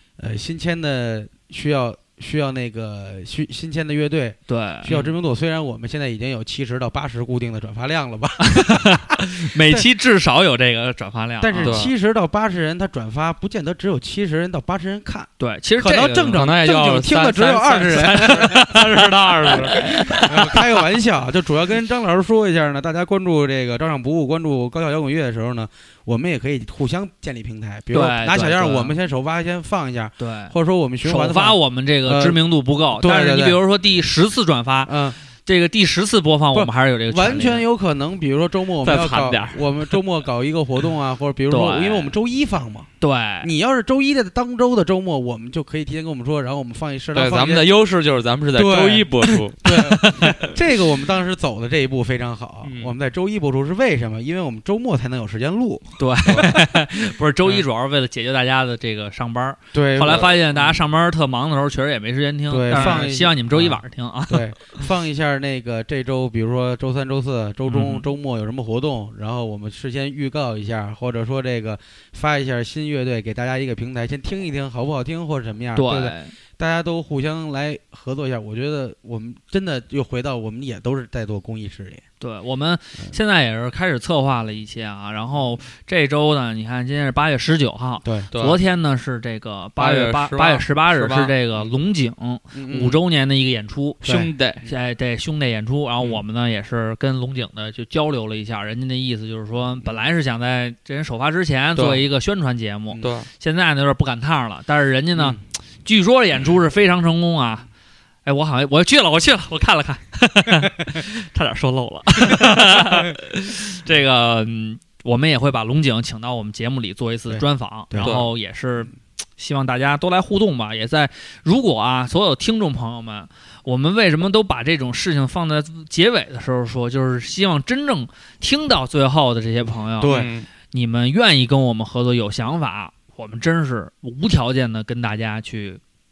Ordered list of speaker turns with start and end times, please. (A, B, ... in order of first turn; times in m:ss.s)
0:00.2-0:09.9 A
0:04.5-0:04.9 B
0:04.9-0:05.2 C
0:08.5-0:11.8 B
0:11.4-0:18.7 A
0:11.6-0:11.9 C
0:15.4-0:16.4 B
0:16.3-0:19.9 C
0:17.9-0:19.0 B
0:19.6-0:20.3 B
0:19.7-0:33.6 A
0:27.9-0:29.0 B
0:30.2-0:37.7 B
0:34.9-0:35.2 A
0:36.5-0:47.8 A
0:38.9-0:39.5 B
0:39.0-0:39.5 C
0:41.5-0:42.2 B
0:43.0-0:43.5 B
0:47.2-0:49.6 C
0:48.5-0:56.0 A
0:52.6-0:52.9 C
0:56.0-1:04.5 B
0:56.3-0:56.5 C
0:59.7-1:00.8 A
1:00.0-1:00.3 C
1:02.5-1:22.0 A
1:02.7-1:03.1 C
1:07.7-1:08.1 B
1:15.8-1:16.4 B
1:22.2-1:34.0 B
1:28.0-1:28.3 A
1:28.3-1:28.6 C
1:29.8-1:31.3 C
1:32.5-1:33.0 A
1:34.0-1:34.3 A
1:34.0-1:34.7 C
1:34.6-1:47.7 B
1:41.8-1:42.1 C
1:43.0-1:43.3 C
1:45.1-1:45.4 A
1:48.2-2:10.1 B
1:57.3-1:58.2 A
1:58.0-1:58.3 C
2:10.0-2:10.3 A
2:10.0-2:10.5 C
2:10.7-2:15.8 B